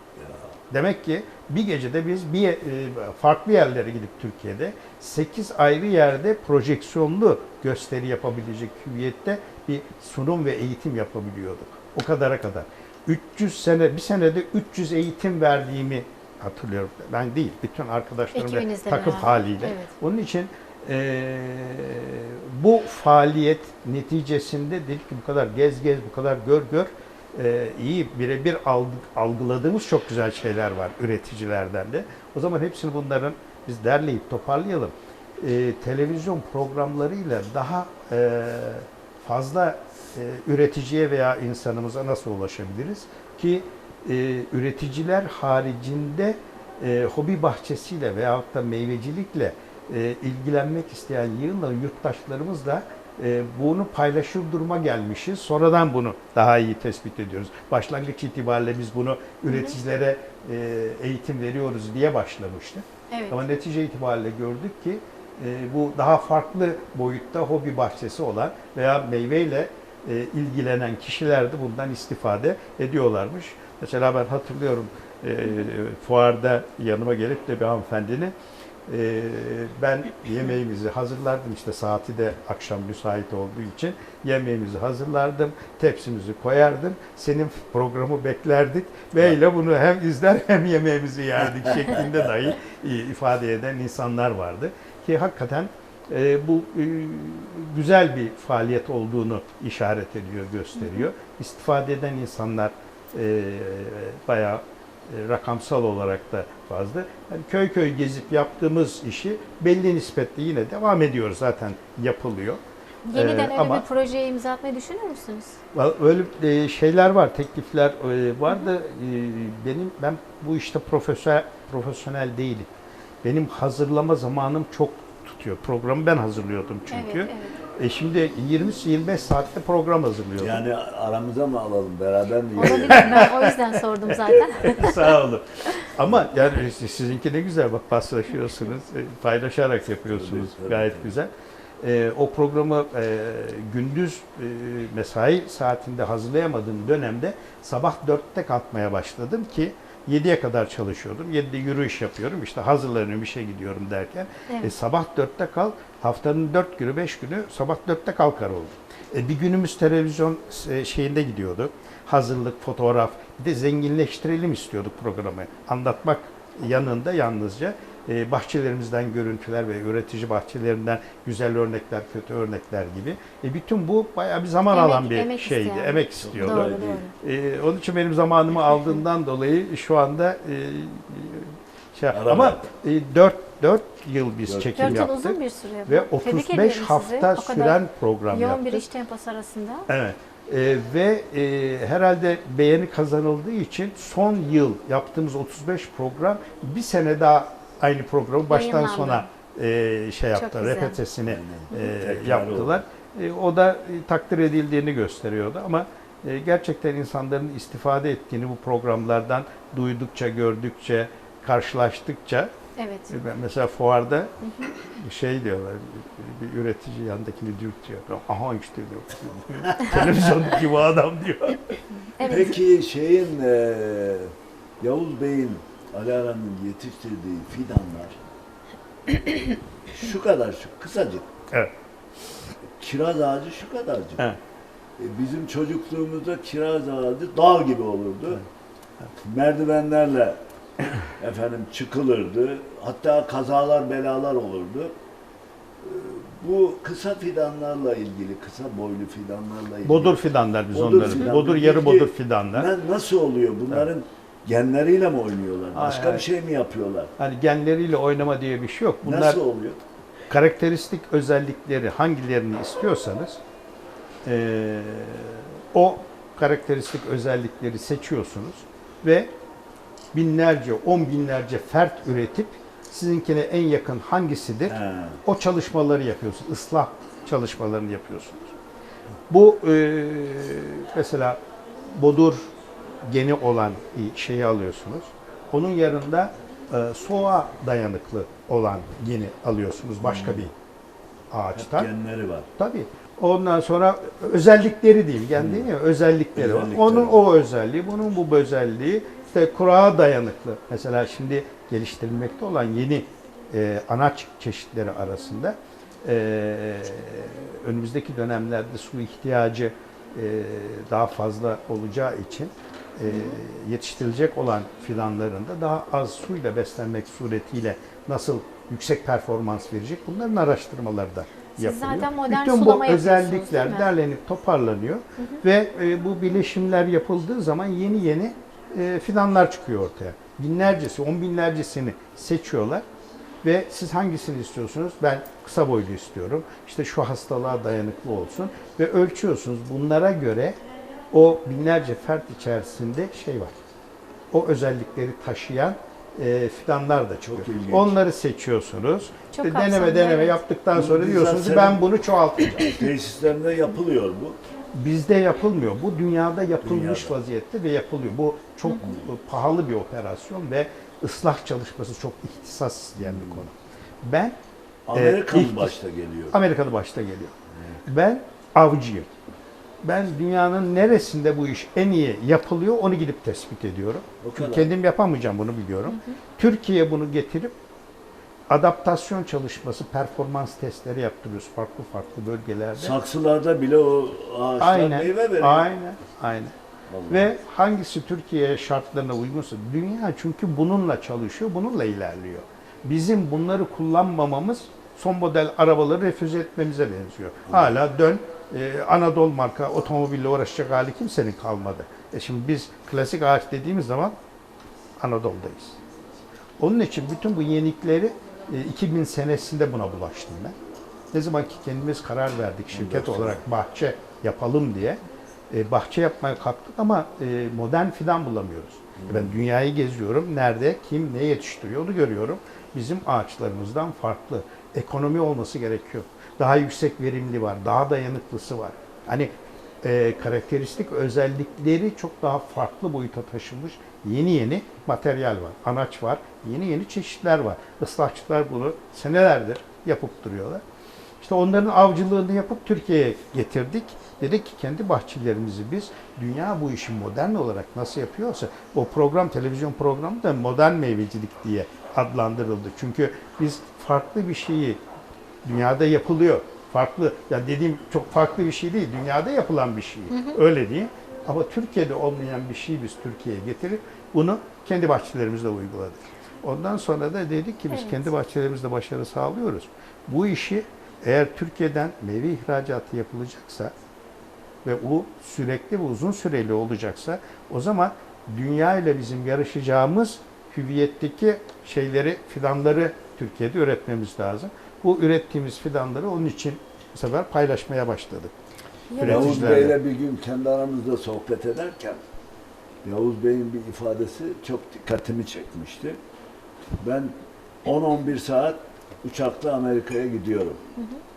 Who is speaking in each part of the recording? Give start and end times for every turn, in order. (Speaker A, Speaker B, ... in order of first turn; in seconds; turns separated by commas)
Speaker A: 0.1-0.6, Speaker B: 0.7-78.3, Speaker C: 18.3-19.9, Speaker C: 59.5-59.8, Speaker C: 63.1-63.4, Speaker B: 78.9-112.6, Speaker C: 100.8-101.0, Speaker C: 113.1-115.6, Speaker B: 113.1-113.8, Speaker B: 115.7-122.7, Speaker B: 123.2-130.6, Speaker C: 126.9-127.6, Speaker A: 130.4-133.3, Speaker C: 132.6-135.0, Speaker B: 132.6-188.8, Speaker A: 140.1-141.1, Speaker C: 174.7-177.1, Speaker A: 176.2-177.0, Speaker A: 182.1-182.7, Speaker A: 184.5-185.0, Speaker C: 184.8-187.8, Speaker C: 188.3-189.9, Speaker B: 189.9-212.5, Speaker C: 198.5-199.3, Speaker C: 200.3-201.0, Speaker A: 201.3-202.8, Speaker C: 212.8-213.1, Speaker B: 213.1-221.8, Speaker C: 214.4-214.7, Speaker C: 222.1-222.6, Speaker A: 222.2-228.2, Speaker C: 229.1-229.4, Speaker A: 229.9-231.3, Speaker A: 232.8-234.2, Speaker A: 235.0-238.4, Speaker A: 239.2-240.4, Speaker A: 241.0-244.9, Speaker A: 245.8-250.2, Speaker B: 249.8-252.7, Speaker A: 250.7-257.1, Speaker B: 255.7-256.3, Speaker B: 257.2-259.4, Speaker A: 259.0-259.8, Speaker B: 260.3-263.4, Speaker B: 264.2-269.3, Speaker B: 270.1-278.6, Speaker A: 274.7-275.2, Speaker B: 279.3-281.4, Speaker B: 281.9-282.5, Speaker B: 283.1-290.5, Speaker A: 290.0-290.5, Speaker B: 291.3-291.9, Speaker A: 291.5-292.5, Speaker B: 292.6-332.8, Speaker A: 295.4-295.7, Speaker A: 296.4-297.2, Speaker C: 313.1-313.4, Speaker C: 321.6-323.9, Speaker B: 333.4-340.6, Speaker B: 341.1-343.6, Speaker B: 344.3-352.8, Speaker A: 347.3-347.9, Speaker C: 349.3-350.4, Speaker A: 350.7-351.9, Speaker A: 352.4-354.4, Speaker B: 354.7-364.4, Speaker A: 356.6-357.1, Speaker A: 363.0-363.4, Speaker A: 364.9-366.4, Speaker B: 364.9-365.8, Speaker B: 366.3-369.1, Speaker A: 367.6-367.8, Speaker B: 369.8-377.6, Speaker A: 374.2-374.7, Speaker C: 375.9-376.2, Speaker B: 378.5-382.9, Speaker A: 382.8-385.7, Speaker B: 384.6-386.5, Speaker A: 386.9-387.3, Speaker B: 387.1-404.1, Speaker A: 397.5-397.7, Speaker B: 405.0-405.8, Speaker B: 406.6-410.6, Speaker B: 411.1-440.6, Speaker A: 412.7-413.4, Speaker A: 418.9-419.3, Speaker B: 441.2-454.8, Speaker B: 455.4-473.7, Speaker C: 460.1-460.4, Speaker C: 467.7-468.0, Speaker B: 474.6-488.3, Speaker C: 488.9-489.7, Speaker B: 488.9-489.8, Speaker A: 489.0-492.0, Speaker A: 492.8-496.0, Speaker A: 496.8-497.1, Speaker A: 497.6-500.6